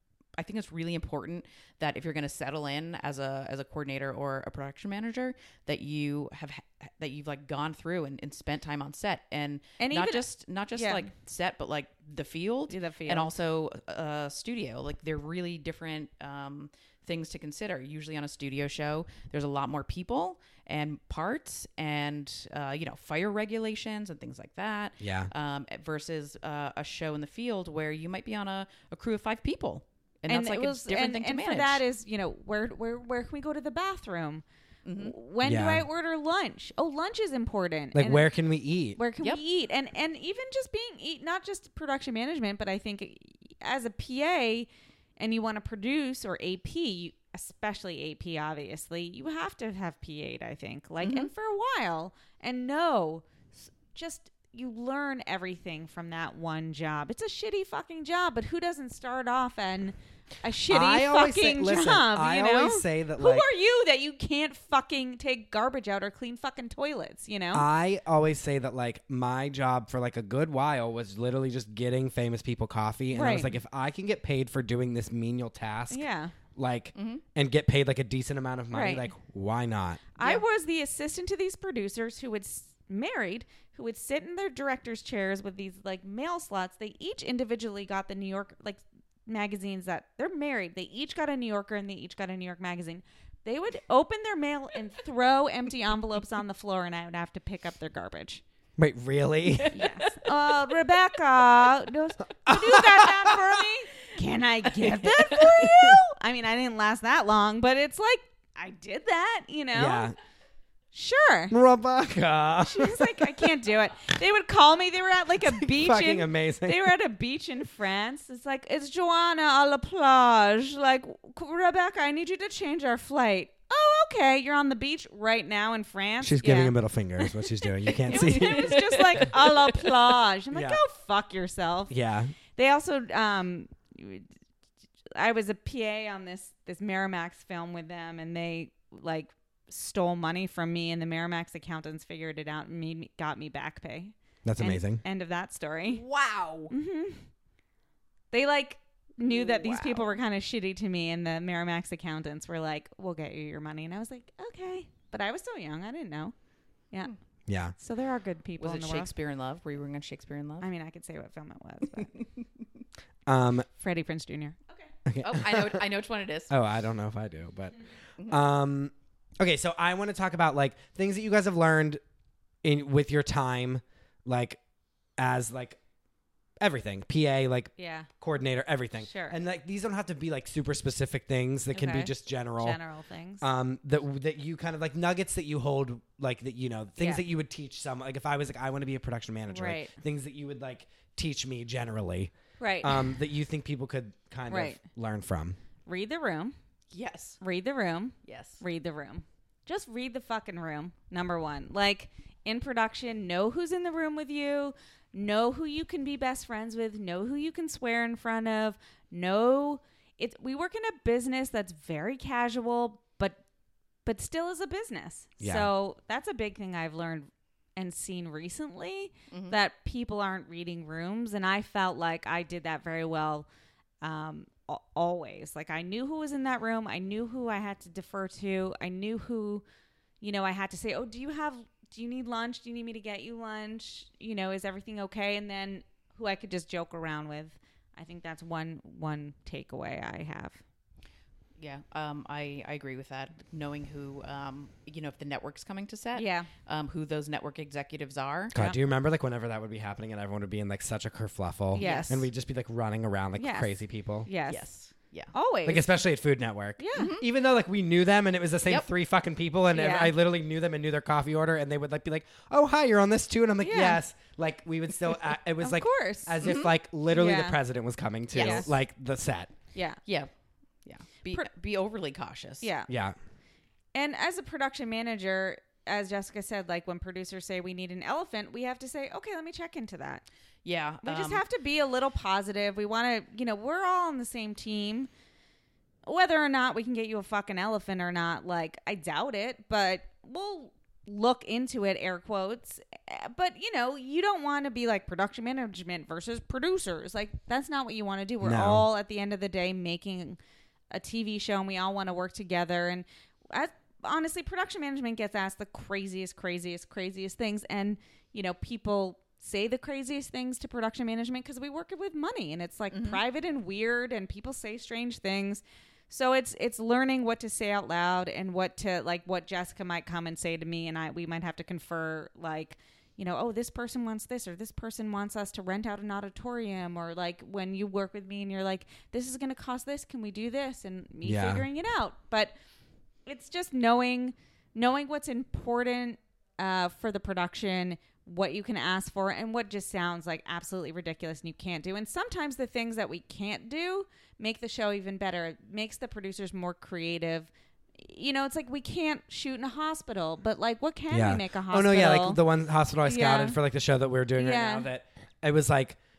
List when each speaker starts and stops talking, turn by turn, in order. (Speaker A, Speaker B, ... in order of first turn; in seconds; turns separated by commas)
Speaker A: 0.4-31.8, Speaker B: 9.8-11.1, Speaker B: 12.7-13.3, Speaker C: 25.0-25.3, Speaker B: 30.3-34.4, Speaker A: 34.8-35.1, Speaker B: 35.0-38.3, Speaker C: 35.4-35.8, Speaker C: 37.9-39.0, Speaker B: 39.0-67.6, Speaker A: 51.0-51.3, Speaker C: 60.7-63.5, Speaker C: 67.5-76.0, Speaker B: 73.1-73.5, Speaker B: 75.9-76.3, Speaker C: 76.5-80.0, Speaker A: 76.9-77.2, Speaker B: 78.7-79.1, Speaker B: 80.2-98.4, Speaker C: 98.8-99.7, Speaker A: 99.5-100.8, Speaker B: 99.7-110.1, Speaker C: 102.5-103.4, Speaker A: 104.8-105.6, Speaker C: 109.7-110.1, Speaker B: 110.9-111.5, Speaker C: 111.5-113.5, Speaker B: 112.6-131.9, Speaker C: 115.5-116.9, Speaker C: 126.2-129.3, Speaker A: 128.1-129.9, Speaker C: 130.5-130.8, Speaker C: 131.9-132.3, Speaker B: 132.5-134.3, Speaker B: 135.1-146.0, Speaker C: 144.4-145.0, Speaker A: 145.9-146.7, Speaker B: 146.7-147.2, Speaker B: 148.3-156.3, Speaker A: 149.2-150.2, Speaker C: 157.5-157.7, Speaker B: 157.8-159.1, Speaker A: 158.6-160.7, Speaker B: 160.6-162.2, Speaker A: 162.0-162.4, Speaker C: 163.3-163.7, Speaker B: 163.8-164.9, Speaker C: 165.1-165.8, Speaker A: 165.2-166.5, Speaker C: 166.5-172.0, Speaker C: 172.6-174.6, Speaker C: 175.2-175.8, Speaker C: 176.6-182.8, Speaker B: 177.8-178.1, Speaker B: 179.0-179.3, Speaker B: 181.7-183.4, Speaker C: 183.4-195.6, Speaker B: 187.0-187.2, Speaker B: 189.5-189.9, Speaker B: 192.6-193.2, Speaker B: 194.5-194.8, Speaker B: 195.8-196.5, Speaker A: 196.9-197.4, Speaker B: 197.4-213.4, Speaker A: 198.2-198.6, Speaker B: 214.0-223.5, Speaker C: 215.4-215.7, Speaker A: 219.3-219.6, Speaker B: 224.0-229.6, Speaker B: 230.2-240.6, Speaker A: 241.6-248.5, Speaker B: 246.1-246.5, Speaker C: 248.5-254.3, Speaker B: 251.7-252.3, Speaker A: 251.7-252.2, Speaker B: 253.4-254.7, Speaker A: 254.5-255.3, Speaker B: 255.3-255.9, Speaker C: 255.6-269.5, Speaker B: 256.8-257.1, Speaker A: 256.9-257.3, Speaker B: 259.7-260.1, Speaker B: 263.6-264.0, Speaker B: 265.6-267.6, Speaker A: 266.4-266.7, Speaker A: 268.3-268.7, Speaker B: 268.4-268.7, Speaker B: 269.7-270.0, Speaker A: 270.1-270.3, Speaker A: 270.8-272.7, Speaker B: 272.6-272.9, Speaker C: 272.9-273.1, Speaker B: 273.9-280.2, Speaker A: 280.6-281.4, Speaker B: 281.0-285.1, Speaker B: 286.1-300.4, Speaker C: 298.4-298.9, Speaker B: 300.9-332.5, Speaker A: 312.9-313.2, Speaker C: 331.2-331.6, Speaker B: 333.2-352.4, Speaker C: 351.1-356.0, Speaker B: 353.1-353.6, Speaker B: 354.4-354.9